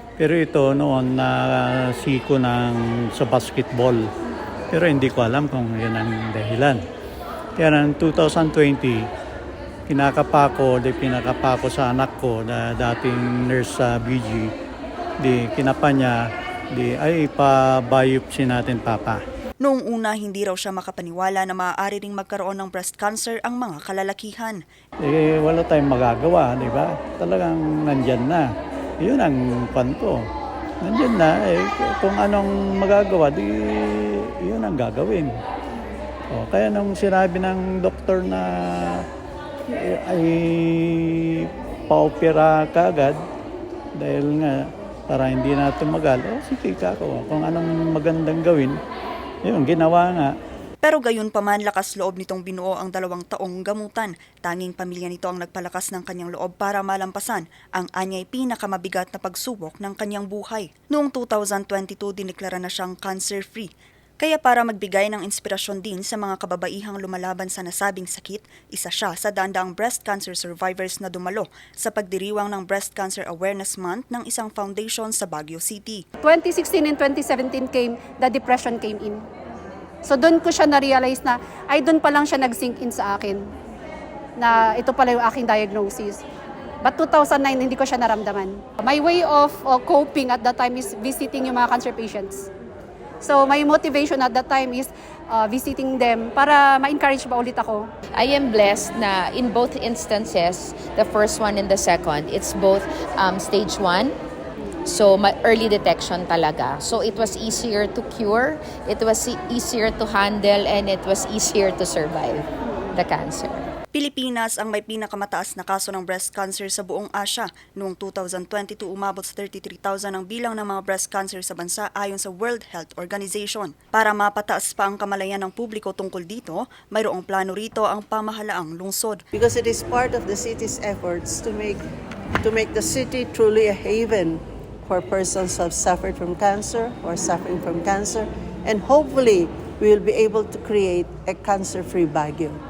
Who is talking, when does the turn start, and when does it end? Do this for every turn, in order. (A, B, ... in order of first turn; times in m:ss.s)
0:00.2-0:04.1 A
0:04.7-0:06.8 A
0:07.6-0:09.1 A
0:09.9-0:14.5 A
0:15.2-0:16.2 A
0:16.7-0:19.2 A
0:19.6-0:24.6 B
0:25.0-0:28.5 A
0:29.0-0:30.2 A
0:30.8-0:35.3 A
0:36.3-0:39.1 A
0:39.7-0:43.2 A
0:44.0-0:48.8 A
0:49.4-0:50.3 A
0:50.8-1:16.0 B
1:16.2-1:19.3 C
1:20.0-1:23.5 C
1:24.4-1:26.2 C
1:26.8-1:32.5 C
1:33.2-1:37.9 C
1:38.1-1:44.2 D
1:44.9-1:53.7 D
1:53.9-2:09.2 B
2:09.3-2:11.8 E
2:12.4-2:22.6 E